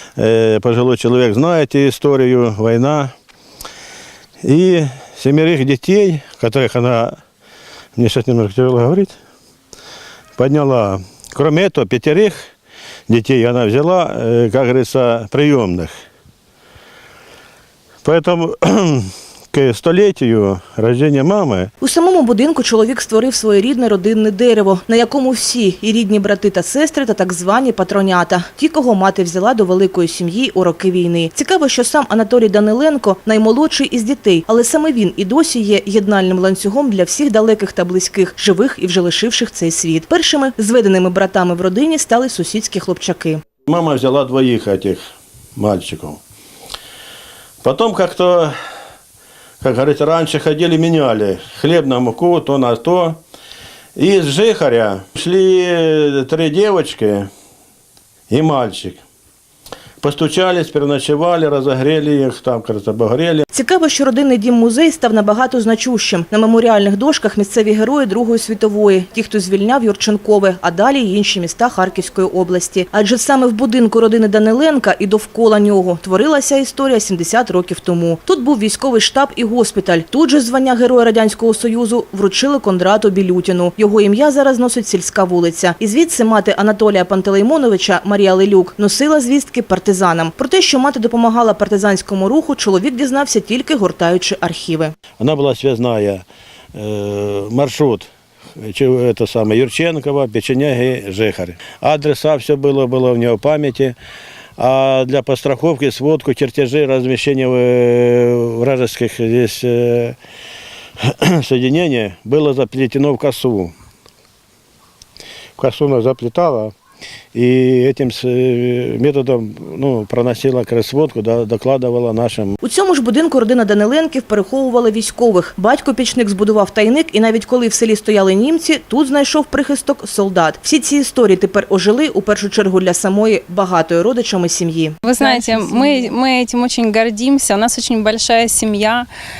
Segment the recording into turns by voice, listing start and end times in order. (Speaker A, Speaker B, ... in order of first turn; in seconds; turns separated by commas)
Speaker A: 0.2-3.1, Speaker A: 4.4-7.2, Speaker A: 8.0-9.2, Speaker A: 10.4-12.5, Speaker A: 13.1-15.9, Speaker A: 18.0-21.7, Speaker B: 21.8-43.4, Speaker A: 43.7-45.0, Speaker A: 45.5-46.2, Speaker A: 47.6-48.5, Speaker A: 49.6-53.2, Speaker A: 54.0-57.3, Speaker A: 58.3-59.0, Speaker A: 60.0-63.4, Speaker B: 63.5-94.9, Speaker A: 95.2-104.0, Speaker A: 104.6-110.2, Speaker A: 111.0-113.7, Speaker A: 115.6-116.7, Speaker A: 117.3-122.6, Speaker B: 122.6-136.1, Speaker C: 135.0-139.1